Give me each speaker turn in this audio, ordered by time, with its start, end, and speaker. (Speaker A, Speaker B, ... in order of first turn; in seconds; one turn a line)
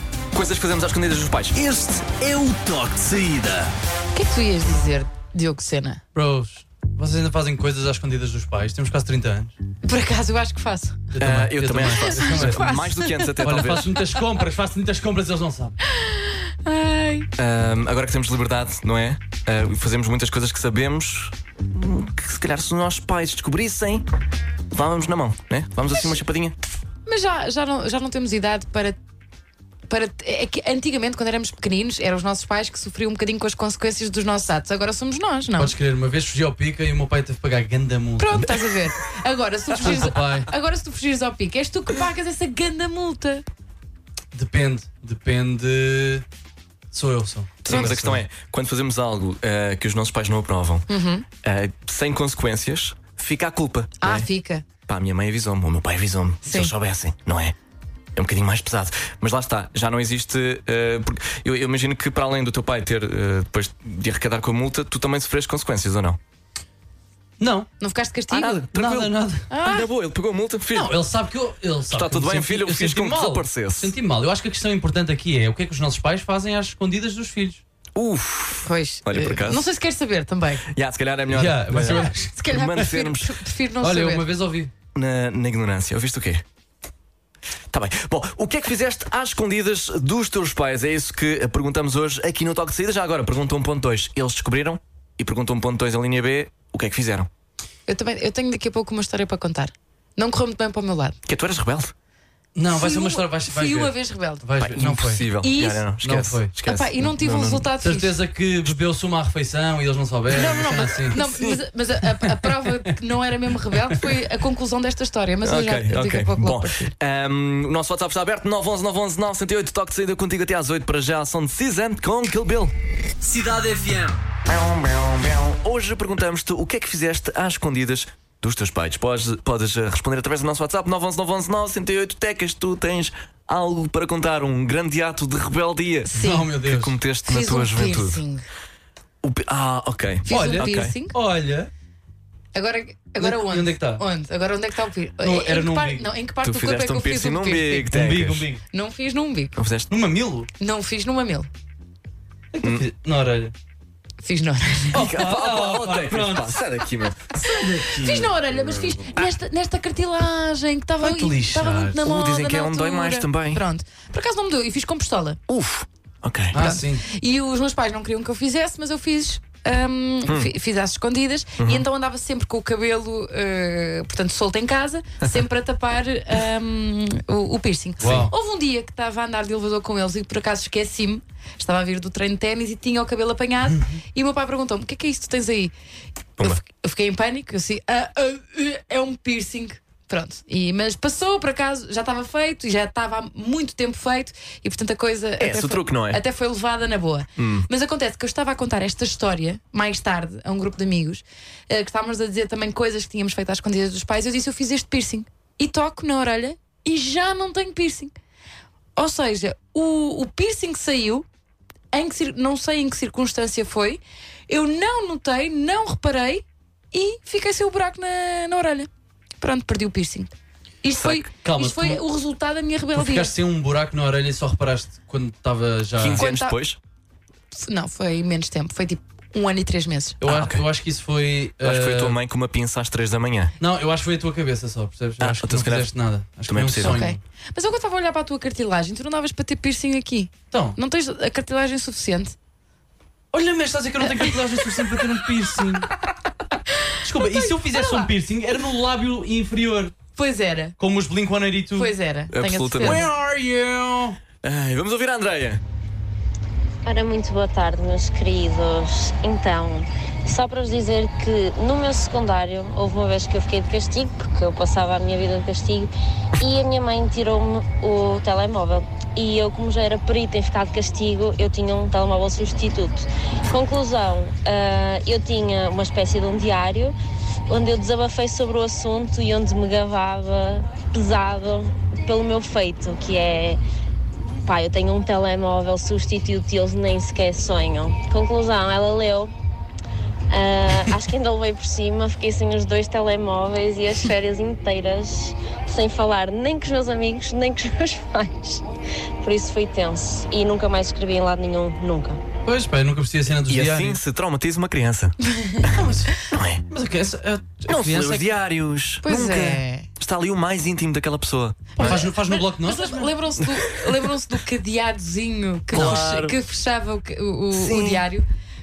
Speaker A: 0.3-1.6
Speaker B: 1.6-3.7
Speaker C: 4.2-6.0
Speaker D: 6.2-9.6
Speaker C: 9.8-11.0
Speaker D: 11.1-12.7
Speaker A: 11.2-13.9
Speaker C: 11.9-14.2
Speaker D: 13.4-15.8
Speaker C: 15.9-17.3
Speaker A: 17.4-24.1
Speaker A: 24.7-26.6
Speaker C: 27.1-29.0
Speaker C: 29.9-35.7
Speaker D: 35.6-38.5
Speaker C: 38.2-43.4
Speaker D: 39.8-40.5
Speaker D: 44.3-46.2
Speaker D: 46.9-48.2
Speaker A: 47.6-50.9
Speaker C: 50.9-51.2
Speaker A: 51.4-54.3
Speaker C: 54.0-54.6
Speaker A: 54.9-57.5
Speaker C: 56.5-56.7
Speaker A: 58.2-66.2
Speaker D: 67.4-67.7
Speaker C: 67.8-68.7
Speaker A: 68.3-71.0
Speaker D: 68.7-69.5
Speaker C: 69.5-69.8
Speaker D: 70.7-77.6
Speaker A: 71.9-73.9
Speaker A: 78.0-79.7
Speaker C: 78.7-80.7
Speaker A: 80.7-83.3
Speaker D: 81.3-82.3
Speaker C: 81.8-84.3
Speaker D: 83.8-84.7
Speaker A: 84.9-86.4
Speaker A: 87.7-97.3
Speaker C: 97.9-101.2
Speaker A: 101.3-101.9
Speaker D: 102.5-105.3
Speaker C: 102.7-104.4
Speaker A: 104.6-107.7
Speaker C: 105.4-105.8
Speaker D: 106.0-106.5
Speaker C: 106.7-108.1
Speaker D: 107.8-111.3
Speaker C: 110.3-116.9
Speaker A: 111.2-111.5
Speaker A: 115.4-122.7
Speaker B: 123.2-124.2
Speaker A: 124.5-138.2
Speaker C: 136.1-136.5
Speaker D: 136.1-137.0
Speaker C: 137.3-138.5
Speaker A: 139.2-140.9
Speaker C: 140.3-141.2
Speaker D: 140.3-141.7
Speaker C: 142.5-147.9
Speaker D: 143.2-144.0
Speaker D: 145.2-146.1
Speaker A: 146.4-148.5
Speaker D: 147.9-148.6
Speaker C: 148.7-149.6
Speaker A: 149.6-149.9
Speaker D: 149.9-150.5
Speaker C: 150.6-151.5
Speaker D: 152.5-153.5
Speaker C: 154.2-155.0
Speaker D: 154.9-156.6
Speaker A: 154.9-157.3
Speaker D: 157.4-158.9
Speaker C: 157.9-165.4
Speaker D: 161.0-162.0
Speaker A: 162.0-163.6
Speaker A: 165.5-166.6
Speaker D: 166.5-167.0
Speaker C: 166.6-185.7
Speaker A: 171.6-171.8
Speaker D: 178.0-178.3
Speaker D: 183.7-184.0
Speaker C: 186.4-208.1
Speaker A: 195.4-196.2
Speaker A: 197.4-197.7
Speaker C: 209.0-211.3
Speaker C: 211.9-218.9
Speaker C: 219.4-220.3
Speaker C: 220.8-223.4
Speaker A: 221.0-221.3
Speaker D: 221.4-222.0
Speaker D: 223.0-226.2
Speaker A: 226.0-226.8
Speaker C: 226.2-226.6
Speaker C: 227.5-230.2
Speaker D: 230.2-232.2
Speaker A: 230.3-230.6
Speaker A: 231.6-233.6
Speaker D: 233.6-237.2
Speaker A: 235.2-235.9
Speaker A: 236.5-237.0
Speaker C: 236.8-242.3
Speaker D: 240.5-240.8
Speaker D: 243.3-245.9
Speaker D: 247.0-249.9
Speaker C: 247.3-248.1
Speaker C: 250.2-250.8
Speaker D: 250.8-251.9
Speaker C: 251.8-253.1
Speaker A: 252.3-253.1
Speaker D: 252.8-254.2
Speaker A: 254.4-255.6
Speaker E: 256.9-276.9
Speaker E: 277.5-283.6
Speaker E: 284.4-289.3
Speaker E: 290.3-298.6
Speaker E: 299.2-302.2
Speaker D: 302.4-304.0
Speaker A: 303.5-306.6
Speaker C: 305.4-305.6
Speaker D: 305.7-306.2
Speaker D: 306.7-308.3
Speaker A: 307.7-312.1
Speaker C: 309.0-309.9
Speaker D: 311.8-313.1
Speaker C: 311.8-318.2
Speaker A: 315.7-316.4
Speaker A: 317.5-318.0